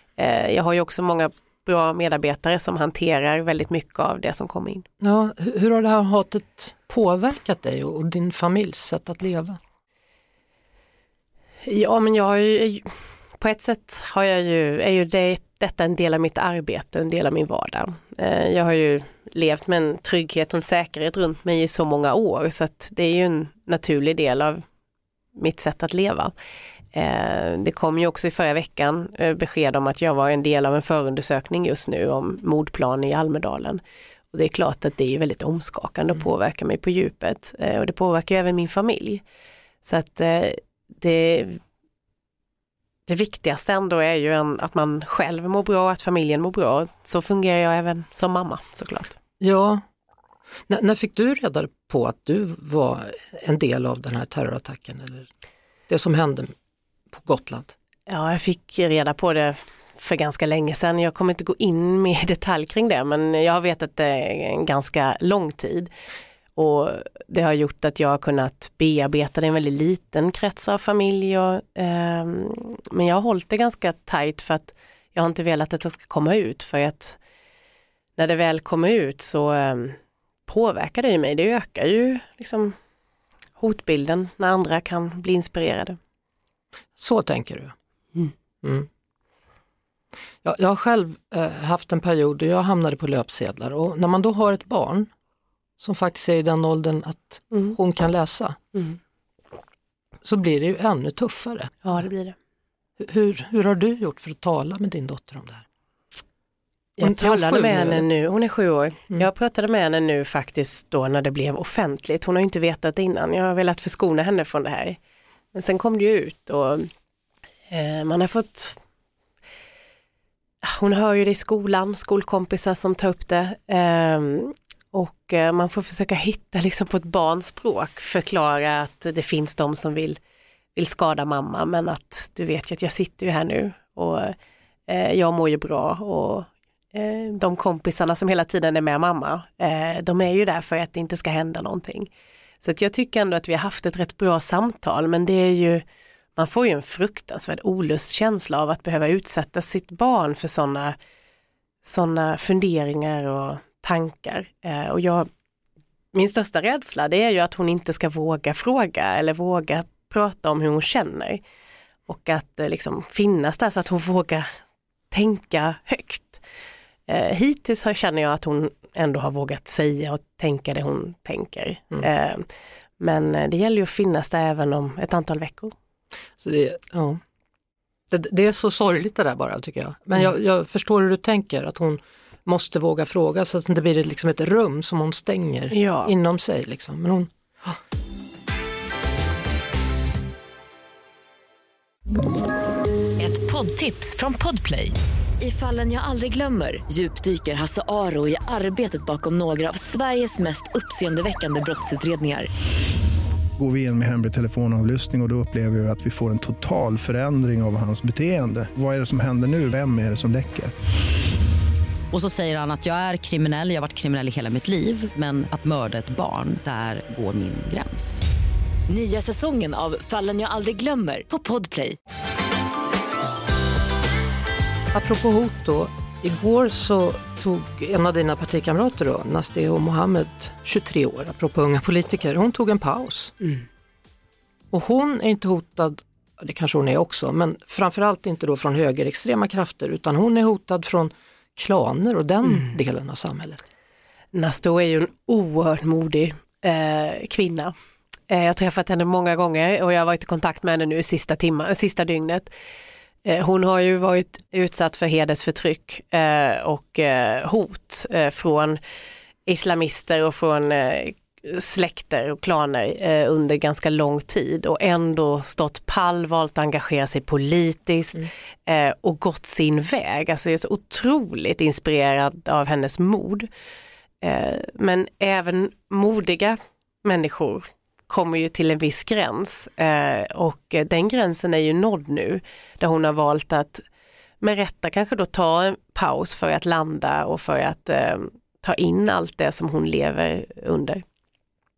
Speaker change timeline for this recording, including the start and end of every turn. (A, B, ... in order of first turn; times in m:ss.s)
0:00.2-0:04.8 A
0:05.0-0:09.6 B
0:11.6-0:24.6 A
0:25.4-0:26.3 A
0:26.9-0:33.8 A
0:34.3-0:39.2 A
0:39.8-0:41.6 A
0:43.1-0:49.2 A
0:49.4-0:49.8 B
0:50.7-0:55.3 B
0:55.9-0:56.5 B
0:57.1-0:57.7 B
0:58.1-1:05.9 A
1:06.6-1:17.2 A
1:18.2-1:22.7 A
1:23.6-1:26.0 A
1:27.0-1:27.7 B
1:28.6-1:28.9 B
1:30.4-1:35.1 B
1:35.8-1:38.6 B
1:37.5-1:37.8 A
1:40.2-1:41.7 B
1:41.8-1:42.3 A
1:43.0-1:45.6 B
1:47.0-1:55.0 A
1:47.0-1:48.0 B
1:55.5-1:56.9 A
1:57.7-1:58.8 A
2:00.6-2:10.2 A
2:10.8-2:14.4 A
2:14.9-2:22.1 A
2:22.6-2:25.8 A
2:26.4-2:31.0 A
2:31.8-2:35.3 A
2:36.1-2:41.4 A
2:42.1-2:44.5 A
2:45.1-2:46.4 A
2:47.1-2:52.5 A
2:53.0-2:55.7 A
2:56.4-2:57.2 B
2:58.1-3:07.3 B
3:05.7-3:06.1 A
3:13.2-3:22.5 C
3:23.6-3:30.7 D
3:32.1-3:38.2 E
3:38.9-3:42.0 C
3:44.9-3:53.3 B
3:54.7-4:03.7 B
4:04.3-4:07.7 A
4:08.3-4:12.5 A
4:13.2-4:18.8 A
4:19.4-4:33.5 A
4:34.2-4:43.8 A
4:44.4-4:51.0 A